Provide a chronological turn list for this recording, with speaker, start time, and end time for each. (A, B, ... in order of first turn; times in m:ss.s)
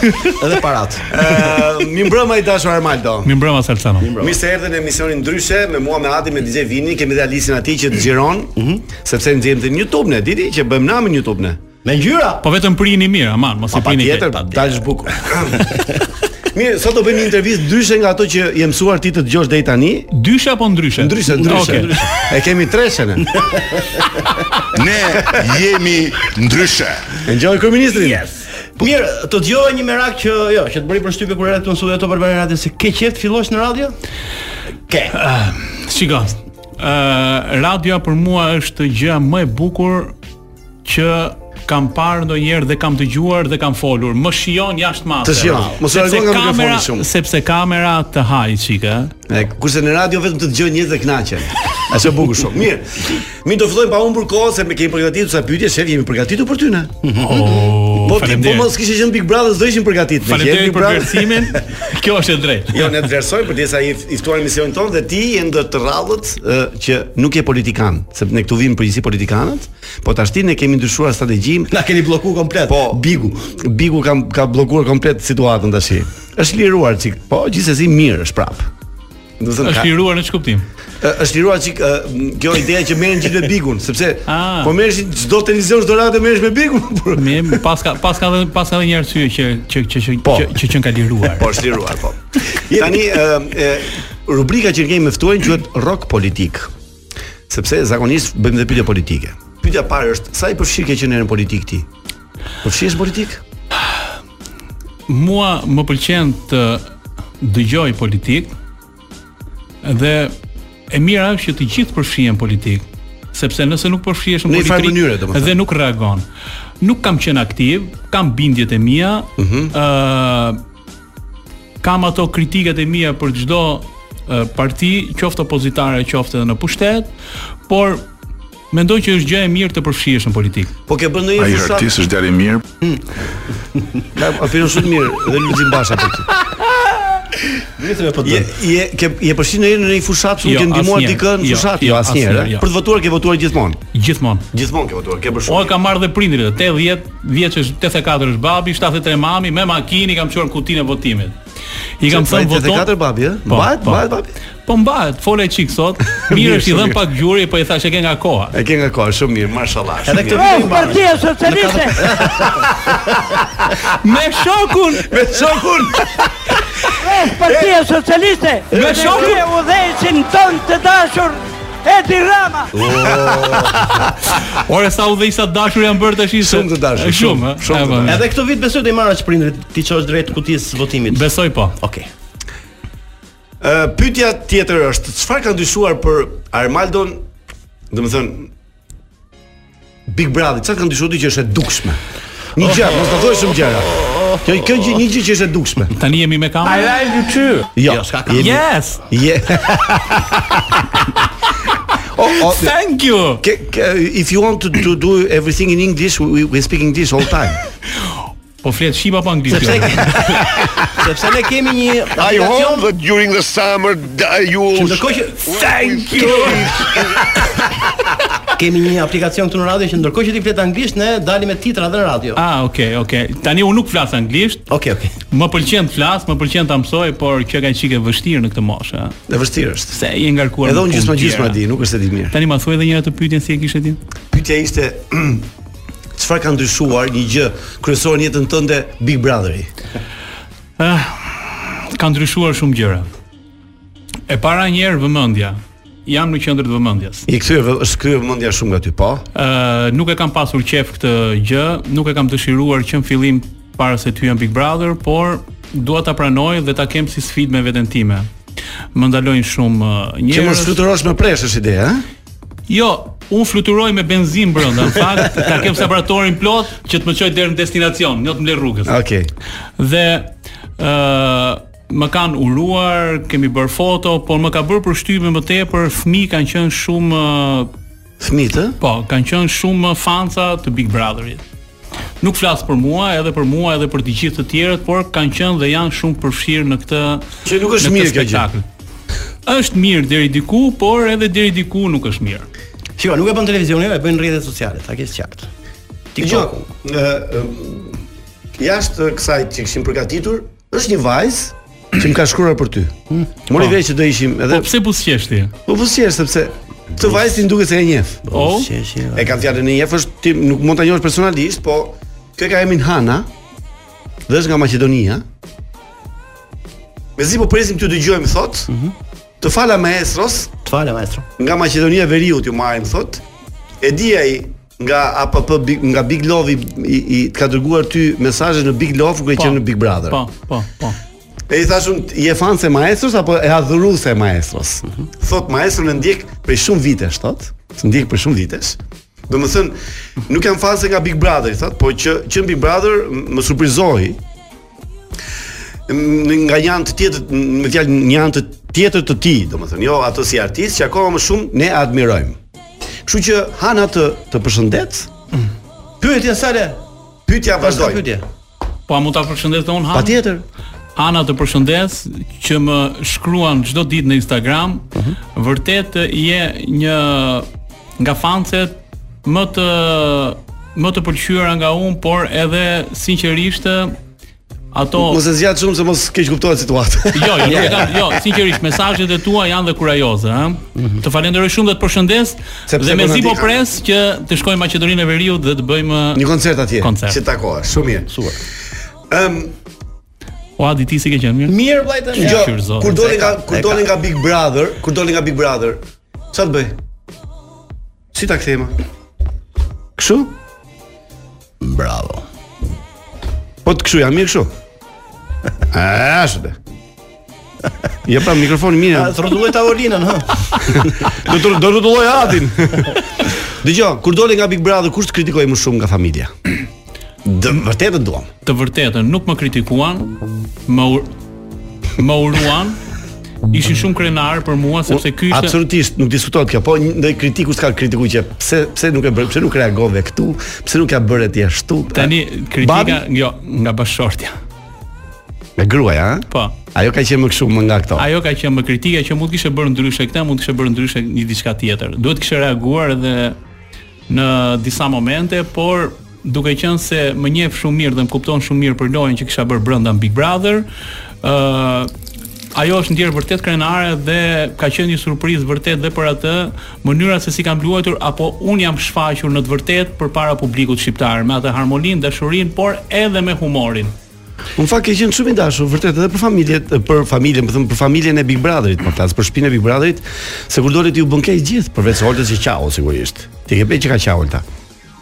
0:00.2-0:01.1 A
0:01.1-0:03.3 B
0:03.2-0:04.1 C
0:04.0-0:04.4 A
0:04.2-0:11.6 B
0:08.6-0:08.8 A
0:11.8-0:12.4 A
0:12.4-0:14.4 C
0:13.7-0:15.8 B
0:16.5-0:20.1 B
0:20.1-0:22.0 C
0:21.0-0:23.4 B
0:21.3-0:22.2 A
0:23.4-0:24.0 A
0:24.7-0:27.2 D
0:27.2-0:28.2 B
0:27.9-0:33.9 A
0:34.9-0:35.1 A
0:35.1-0:40.1 C
0:40.8-0:49.1 C
0:45.2-0:47.1 B
0:49.3-0:57.1 B
0:57.0-0:57.7 A
0:57.2-0:58.7 C
0:57.9-1:01.6 B
1:00.3-1:03.0 C
1:02.7-1:11.7 B
1:11.7-1:13.4 A
1:12.7-1:18.7 B
1:19.4-1:19.9 B
1:19.6-1:20.7 C
1:21.0-1:27.6 B
1:24.3-1:24.7 C
1:27.2-1:31.6 C
1:30.2-1:30.6 B
1:31.3-1:36.7 B
1:32.5-1:33.0 A
1:37.5-1:41.9 B
1:42.6-1:43.4 B
1:45.1-1:46.8 C
1:47.4-1:48.5 C
1:49.8-1:50.3 C
1:50.9-1:56.2 C
1:54.5-1:55.5 B
1:56.8-2:00.6 C
1:59.4-1:59.7 B
2:01.8-2:07.1 C
2:07.7-2:08.0 C
2:08.7-2:10.7 C
2:10.9-2:12.1 B
2:11.4-2:12.6 D
2:14.1-2:16.3 B
2:17.8-2:18.5 A
2:18.2-2:23.8 B
2:20.4-2:22.6 C
2:23.9-2:24.4 C
2:24.5-2:25.7 B
2:25.5-2:31.4 C
2:32.0-2:32.9 C
2:32.0-2:34.3 B
2:33.5-2:34.0 C
2:34.7-2:38.6 C
2:36.3-2:37.0 B
2:38.5-2:41.0 B
2:40.0-2:43.2 A
2:40.3-2:42.1 E
2:42.3-2:42.7 B
2:43.9-2:45.1 C
2:45.1-2:46.5 B
2:46.9-2:52.7 E
2:48.7-2:49.4 A
2:48.7-2:49.4 C
2:52.7-2:54.3 B
2:52.9-2:53.8 A
2:54.4-2:58.2 C
2:56.4-2:58.2 B
2:58.0-3:02.1 A
3:01.1-3:01.7 C
3:03.6-3:07.2 B
3:07.9-3:08.5 B
3:10.1-3:12.0 B
3:12.5-3:15.9 B
3:13.9-3:14.4 A
3:15.9-3:17.7 C
3:17.8-3:21.0 B
3:17.8-3:18.6 A
3:18.4-3:19.0 C
3:22.1-3:22.7 B
3:22.4-3:23.4 C
3:23.4-3:27.6 B
3:28.6-3:30.3 C
3:29.5-3:32.9 A
3:32.4-3:34.8 D
3:34.7-3:35.6 A
3:35.4-3:37.1 C
3:36.1-3:36.6 A
3:38.5-3:42.4 A
3:42.4-3:44.7 C
3:44.7-3:45.1 A
3:45.3-3:49.2 C
3:49.3-3:50.0 B
3:49.9-3:51.6 C
3:50.6-3:52.4 B
3:52.3-3:54.0 C
3:54.3-3:55.5 B
3:56.1-3:59.7 B
4:00.8-4:03.1 C
4:04.3-4:07.2 C
4:07.3-4:09.2 B
4:09.3-4:18.3 C
4:18.9-4:20.8 C
4:20.3-4:22.0 B
4:22.7-4:28.9 C
4:28.8-4:29.3 B
4:29.8-4:37.7 C
4:38.2-4:38.8 B
4:38.8-4:41.4 C
4:42.2-4:47.2 C
4:47.4-4:48.4 B
4:47.8-4:48.6 C
4:49.4-4:52.5 C
4:53.0-4:55.5 A
4:56.1-4:56.7 A
4:56.2-4:58.0 B
4:58.6-5:02.9 B
5:03.5-5:04.7 B
5:04.5-5:05.5 C
5:05.6-5:08.2 B
5:08.3-5:09.3 A
5:08.3-5:08.7 C
5:09.1-5:13.3 B
5:14.3-5:15.2 B
5:17.2-5:18.7 B
5:19.4-5:20.5 B
5:20.6-5:21.2 A
5:21.4-5:23.2 B
5:23.8-5:30.2 B
5:29.4-5:31.0 C
5:31.5-5:44.2 B
5:45.9-5:52.4 B
5:53.0-5:55.1 B
5:56.0-5:56.8 A
5:57.3-5:58.0 B
5:57.6-5:58.2 A
5:58.9-6:00.2 C
5:59.9-6:00.4 B
6:01.0-6:07.5 C
6:08.0-6:14.0 C
6:14.7-6:15.2 C
6:15.0-6:18.1 B
6:17.1-6:26.2 C
6:22.7-6:23.6 B
6:26.1-6:28.1 B
6:26.8-6:27.2 C
6:28.1-6:28.4 A
6:29.1-6:29.5 B
6:30.6-6:31.5 C
6:31.5-6:33.8 A
6:32.1-6:33.0 C
6:32.2-6:35.8 B
6:36.3-6:36.8 B
6:38.1-6:38.8 B
6:40.0-6:40.3 B
6:41.6-6:42.2 A
6:43.6-6:44.5 B
6:45.7-6:46.6 B
6:48.0-6:49.1 B
6:48.9-6:51.0 A
6:50.7-6:56.3 B
6:57.2-6:58.3 B
6:58.4-7:01.1 C
7:02.0-7:02.8 C
7:03.5-7:05.5 C
7:04.9-7:13.0 B
7:11.9-7:14.3 C
7:15.6-7:18.1 B
7:16.3-7:16.6 C
7:18.0-7:23.4 C
7:24.1-7:30.7 C
7:31.2-7:31.9 C
7:32.5-7:43.9 C
7:44.6-7:54.4 B